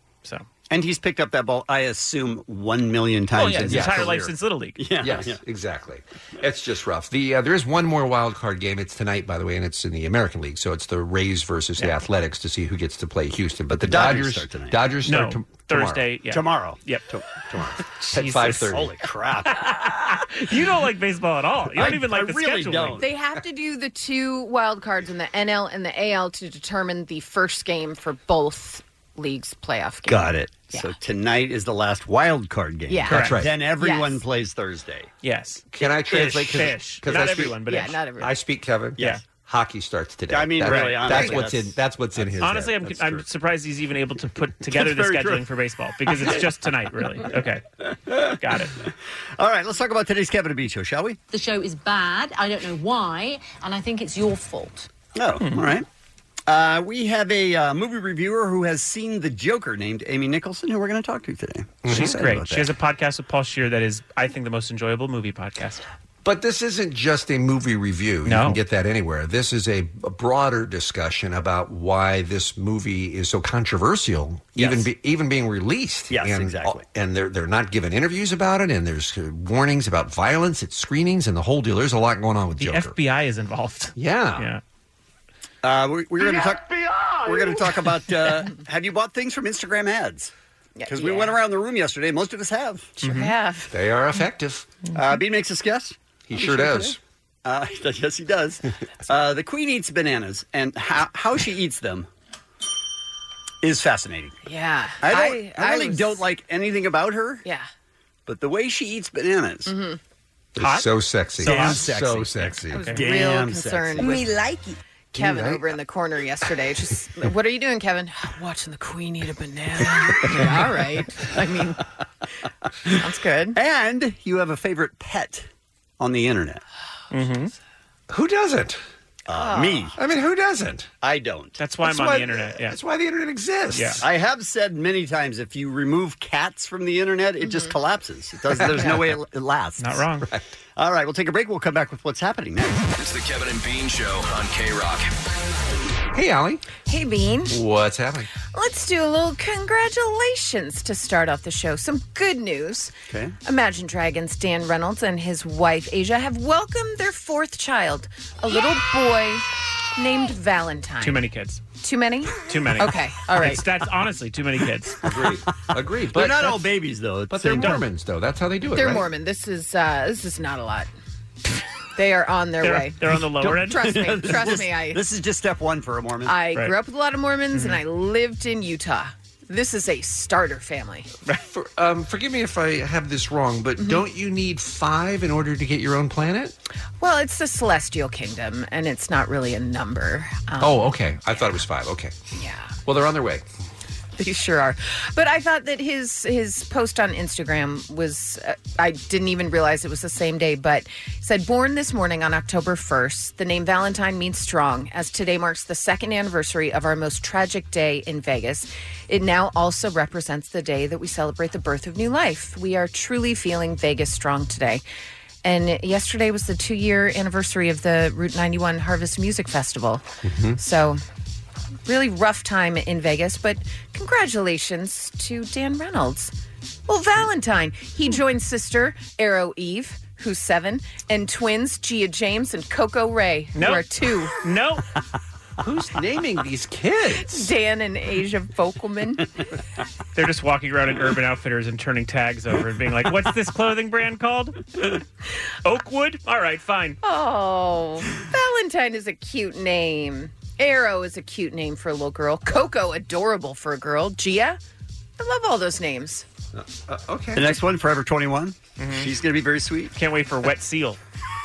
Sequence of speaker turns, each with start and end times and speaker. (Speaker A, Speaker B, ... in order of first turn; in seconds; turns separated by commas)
Speaker A: 0.7-5.4, Speaker B: 3.3-4.8, Speaker C: 3.6-4.1, Speaker C: 5.0-16.0, Speaker A: 13.8-14.8, Speaker B: 15.0-17.1, Speaker A: 16.3-16.8, Speaker C: 17.1-18.9, Speaker B: 17.8-18.8, Speaker A: 18.7-19.8, Speaker B: 19.5-23.0, Speaker A: 21.7-23.1, Speaker D: 23.0-30.9, Speaker A: 30.1-35.1, Speaker D: 32.9-34.2, Speaker C: 33.1-33.5, Speaker B: 33.1-33.4, Speaker B: 35.2-38.1, Speaker C: 35.7-37.6, Speaker A: 36.1-36.7, Speaker D: 37.6-38.3, Speaker C: 38.2-43.2, Speaker A: 40.3-41.8, Speaker B: 40.6-41.5, Speaker B: 42.4-47.6, Speaker A: 44.7-45.4, Speaker A: 46.1-46.4, Speaker A: 48.1-51.2, Speaker B: 48.4-48.7, Speaker E: 51.3-54.9, Speaker A: 55.1-55.9, Speaker B: 55.4-55.8, Speaker A: 56.5-62.7, Speaker C: 61.8-62.2, Speaker B: 61.9-65.8, Speaker C: 66.2-83.0, Speaker B: 68.2-68.6, Speaker A: 74.5-74.8, Speaker A: 76.1-76.8, Speaker B: 82.6-84.6, Speaker C: 84.0-84.5, Speaker A: 85.6-90.3, Speaker D: 90.8-91.4, Speaker A: 90.9-92.9, Speaker D: 93.0-93.7, Speaker B: 93.0-93.3, Speaker C: 93.7-94.7, Speaker A: 94.9-102.1, Speaker C: 96.3-97.0, Speaker A: 103.6-104.4, Speaker D: 104.4-106.2, Speaker A: 105.0-107.4, Speaker A: 108.2-109.7, Speaker D: 109.7-110.0, Speaker C: 110.6-112.8, Speaker B: 110.6-111.9, Speaker A: 111.4-114.3, Speaker B: 112.7-113.0, Speaker D: 112.7-114.6, Speaker C: 115.1-115.7, Speaker D: 115.1-121.8, Speaker D: 122.9-123.6, Speaker A: 123.5-125.5, Speaker A: 126.0-126.6, Speaker B: 127.1-127.5, Speaker C: 128.1-128.8, Speaker A: 129.3-129.9, Speaker D: 129.3-129.9, Speaker C: 129.9-130.9, Speaker A: 131.0-131.6, Speaker B: 131.6-132.8, Speaker C: 131.8-134.0, Speaker B: 133.7-134.0, Speaker A: 134.0-140.0, Speaker D: 137.4-137.7, Speaker C: 138.6-138.9, Speaker B: 139.8-140.3, Speaker A: 140.8-142.8, Speaker F: 142.9-145.1, Speaker C: 146.1-146.6, Speaker D: 146.9-147.5, Speaker C: 147.5-148.3, Speaker D: 148.5-152.9, Speaker A: 153.1-153.3, Speaker D: 153.4-161.2, Speaker B: 161.0-161.6, Speaker D: 161.8-163.6, Speaker B: 162.4-165.0, Speaker C: 165.0-166.7, Speaker A: 166.1-167.8, Speaker C: 167.3-169.1, Speaker D: 168.7-170.9, Speaker D: 171.9-173.0, Speaker B: 172.6-174.3, Speaker A: 173.4-176.4, Speaker D: 173.5-175.0, Speaker D: 176.2-181.1, Speaker B: 177.5-177.8, Speaker C: 181.4-186.6, Speaker D: 183.8-184.0, Speaker D: 187.0-191.5, Speaker C: 190.6-192.1, Speaker D: 192.3-192.8, Speaker C: 192.8-193.4, Speaker D: 194.2-214.8, Speaker D: 215.4-220.0, Speaker C: 220.2-220.6, Speaker D: 220.6-221.0, Speaker D: 221.8-226.3, Speaker D: 226.9-234.3, Speaker B: 233.6-234.8, Speaker C: 235.6-237.5, Speaker D: 237.2-239.2, Speaker B: 240.1-244.7, Speaker B: 245.6-247.0, Speaker D: 247.0-254.6, Speaker D: 255.2-256.2, Speaker C: 256.5-257.6, Speaker A: 257.3-259.9, Speaker B: 258.8-259.1, Speaker B: 259.9-261.0